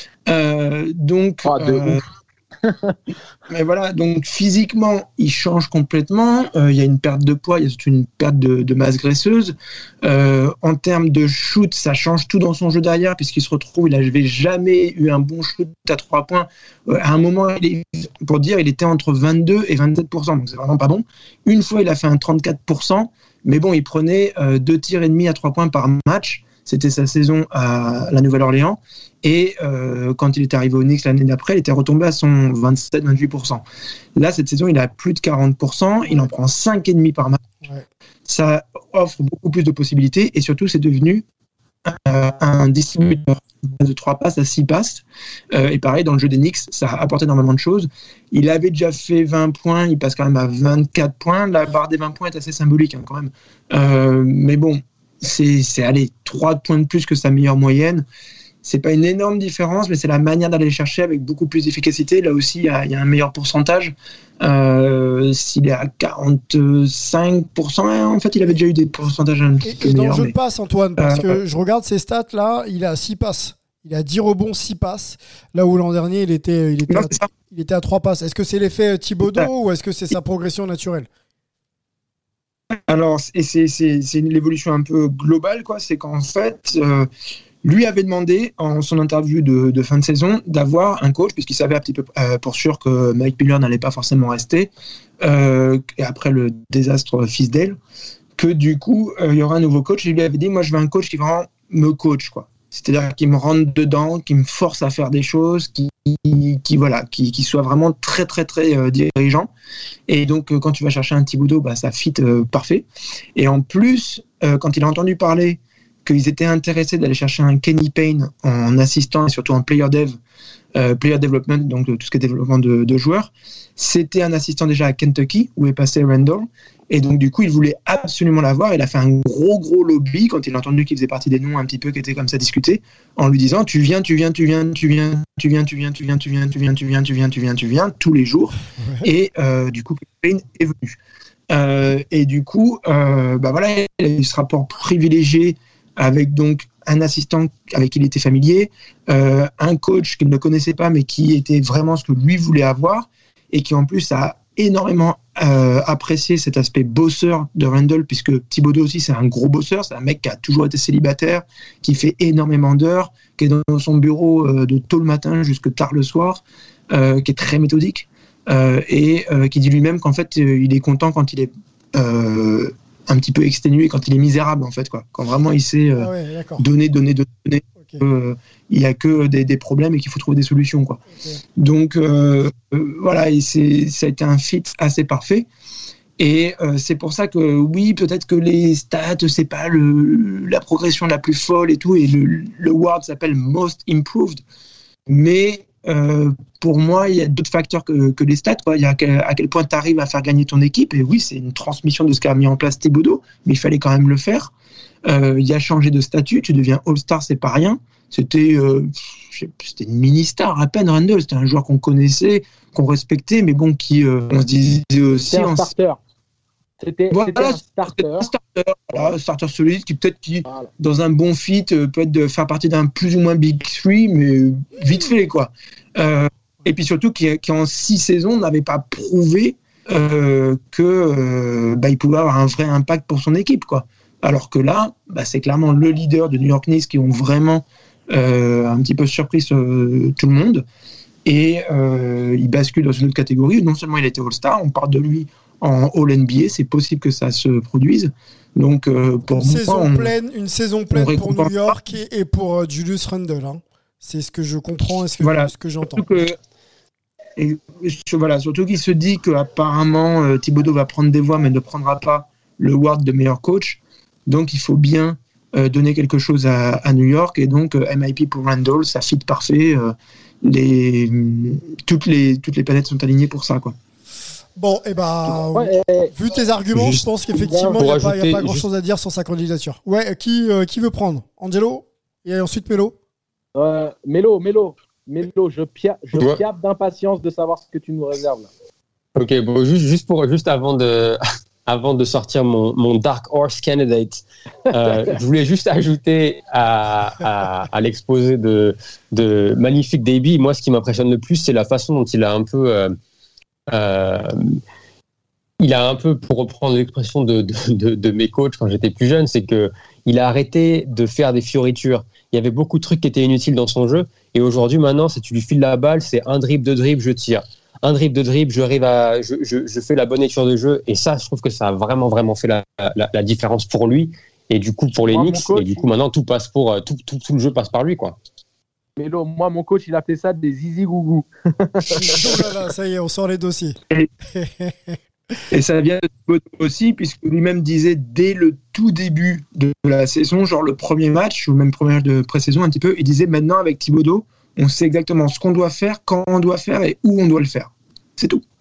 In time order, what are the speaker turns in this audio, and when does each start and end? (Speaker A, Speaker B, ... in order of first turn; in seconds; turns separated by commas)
Speaker A: 0.3-2.0, Speaker B: 1.4-2.0, Speaker B: 2.6-3.0, Speaker A: 3.5-33.6, Speaker A: 34.1-37.4, Speaker A: 38.2-41.2, Speaker A: 41.9-58.0, Speaker A: 58.6-70.3, Speaker C: 69.6-81.1, Speaker A: 71.0-71.4, Speaker A: 76.9-77.3, Speaker A: 82.7-87.1, Speaker A: 87.6-94.7, Speaker A: 95.2-97.8, Speaker A: 98.3-109.5, Speaker A: 110.1-120.2, Speaker A: 120.7-141.0, Speaker C: 138.8-139.1, Speaker A: 141.5-181.0, Speaker C: 176.0-176.7, Speaker C: 181.1-181.4, Speaker A: 181.6-185.5, Speaker A: 186.2-194.4, Speaker A: 195.1-204.5, Speaker A: 205.1-215.7, Speaker B: 215.3-216.0, Speaker B: 216.8-218.3, Speaker A: 217.1-240.6, Speaker A: 241.2-250.1, Speaker C: 249.3-256.1, Speaker A: 250.9-251.7, Speaker A: 255.2-256.4, Speaker A: 257.4-273.7, Speaker C: 274.6-282.9, Speaker B: 275.3-276.1, Speaker D: 276.7-277.0, Speaker B: 277.3-277.8, Speaker D: 277.8-278.6, Speaker B: 283.5-288.5, Speaker D: 289.1-302.9, Speaker D: 303.7-304.6, Speaker D: 305.6-328.1, Speaker B: 325.1-325.9, Speaker B: 329.0-332.2, Speaker C: 332.0-333.8, Speaker C: 334.3-334.9, Speaker A: 335.5-348.4